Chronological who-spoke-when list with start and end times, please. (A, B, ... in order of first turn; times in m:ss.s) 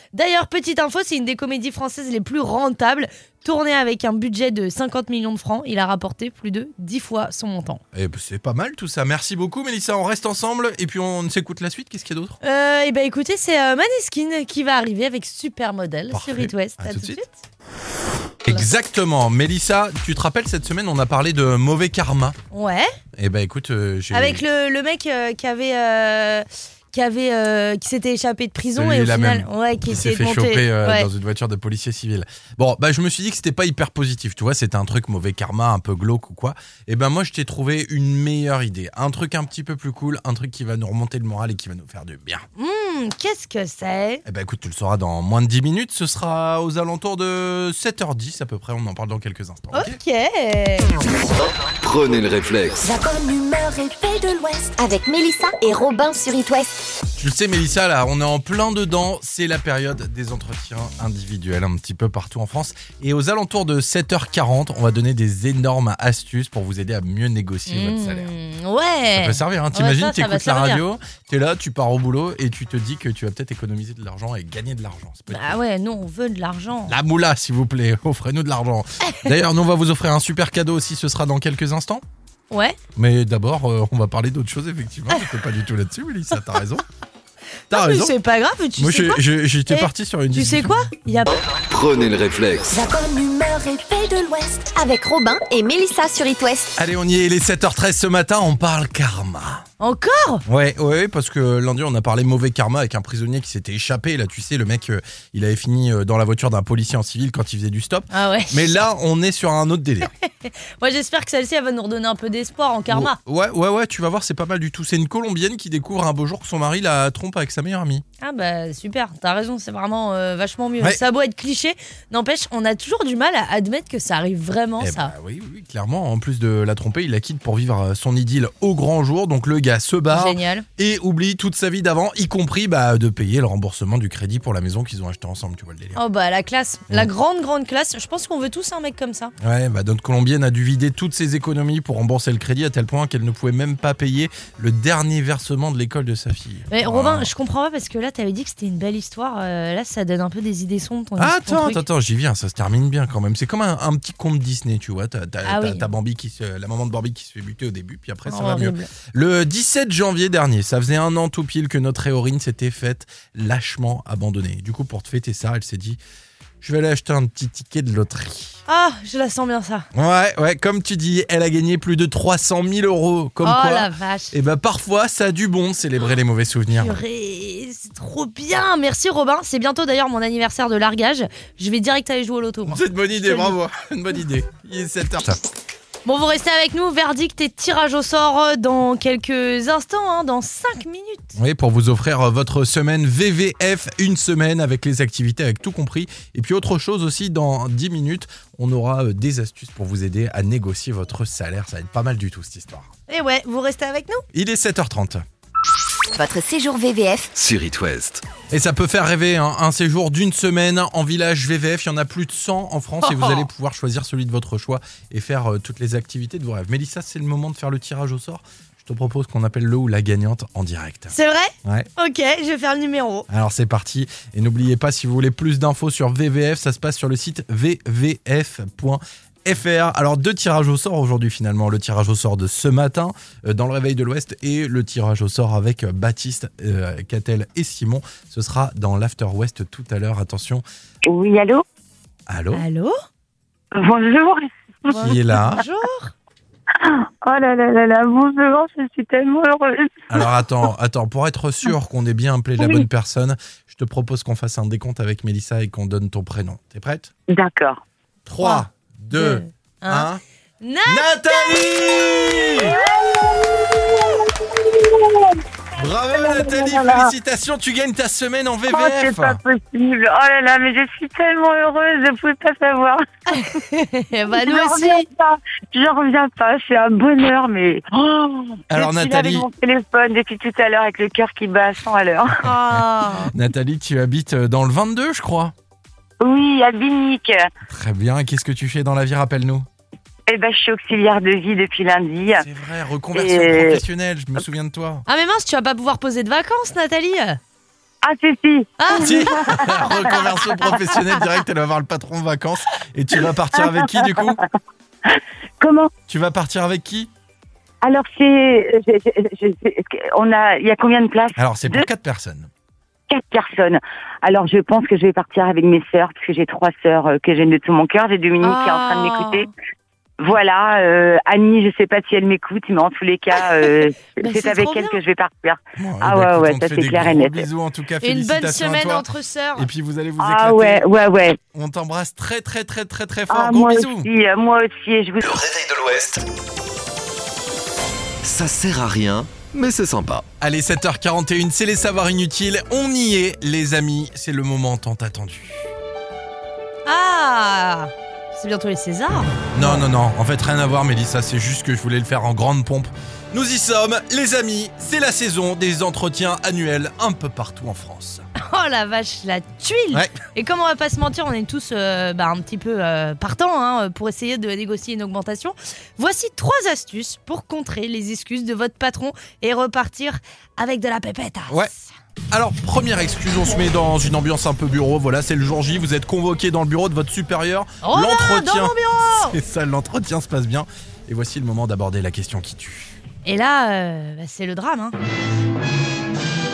0:00.1-0:07.8 A
0:07.9-0:12.4 B
0:12.4-0:17.4 A
0:16.1-0:17.2 B
0:18.4-0:22.4 B
0:22.5-0:22.9 A
0:23.2-0:24.4 B
0:24.1-0:31.1 A
0:28.7-0:42.4 B
0:42.6-0:44.2 A
0:44.2-0:50.0 B
0:49.7-0:50.9 A
0:51.3-0:52.8 C
0:52.8-0:56.7 D
0:57.2-1:08.3 B
1:07.7-1:10.8 A
1:09.1-1:15.6 B
1:15.3-1:17.0 A
1:16.9-1:22.0 B
1:19.0-1:19.3 A
1:22.5-1:22.8 A
1:23.0-1:26.8 B
1:27.7-1:28.1 B
1:27.7-1:31.3 A
1:28.8-1:30.9 B
1:31.5-1:32.7 C
1:32.7-1:36.7 D
1:36.8-1:39.6 B
1:39.8-1:40.4 A
1:40.4-1:50.1 B
1:48.1-1:48.6 A
1:50.2-1:53.2 A
1:52.9-1:58.0 B
1:58.2-2:05.1 A
2:04.8-2:16.0 B
2:10.1-2:10.6 A
2:15.9-2:19.3 A
2:19.4-2:27.3 B
2:26.7-2:31.8 A
2:31.2-2:46.0 B
2:35.4-2:35.8 A
2:38.3-2:38.9 A
2:46.6-2:48.6 B
2:48.7-2:49.8 A
2:49.9-2:57.0 B
2:53.4-2:54.3 A
2:56.7-3:03.5 A
3:02.7-3:05.4 B
3:06.0-3:11.4 A
3:11.4-3:22.9 B
3:23.1-3:24.2 A
3:24.3-3:25.2 B
3:26.1-3:27.3 D
3:27.3-3:28.2 C
3:28.5-3:41.9 B
3:33.0-3:33.4 A
3:41.1-3:43.3 A
3:43.3-4:00.6 B
4:01.1-4:01.6 E
4:02.3-4:02.6 B
4:02.5-4:02.9 A
4:03.7-4:05.0 E
4:04.9-4:06.1 A
4:04.9-4:05.6 B
4:06.8-4:10.3 E
4:10.1-4:17.1 B
4:12.6-4:12.8 E
4:17.3-4:17.8 E
4:18.3-4:20.2 B
4:18.4-4:20.1 A
4:20.6-4:22.6 A
4:20.8-4:22.8 B
4:22.6-4:25.4 E
4:25.8-4:29.4 B
4:26.1-4:27.1 E
4:28.7-4:33.0 E
4:33.3-4:35.0 A
4:34.3-4:42.4 E
4:38.7-4:39.5 B
4:42.4-4:43.3 A
4:42.4-4:45.5 B
4:46.2-4:47.5 E
4:47.6-4:49.7 B
4:50.3-4:52.4 E
4:52.3-4:55.0 B
4:53.1-4:53.8 E
4:55.1-4:57.4 A
4:58.0-5:00.2 E
4:58.8-4:59.7 A
4:58.9-5:04.4 B
5:03.6-5:04.4 E
5:05.0-5:05.9 E
5:06.1-5:07.1 B
5:07.8-5:11.8 E
5:11.4-5:12.5 B
5:13.1-5:19.5 E
5:18.4-5:19.5 A
5:20.2-5:27.4 E
5:24.2-5:25.0 A
5:25.8-5:30.8 B
5:28.0-5:29.7 A
5:30.2-5:31.4 E
5:31.5-5:34.1 B
5:33.3-5:35.3 E
5:35.2-5:36.2 C
5:38.2-5:40.2 C
5:40.4-5:45.7 B
5:46.8-5:49.8 A
5:49.5-5:58.2 B
5:58.4-6:11.9 A
6:12.3-6:22.9 B
6:17.8-6:19.4 A
6:23.2-6:25.0 A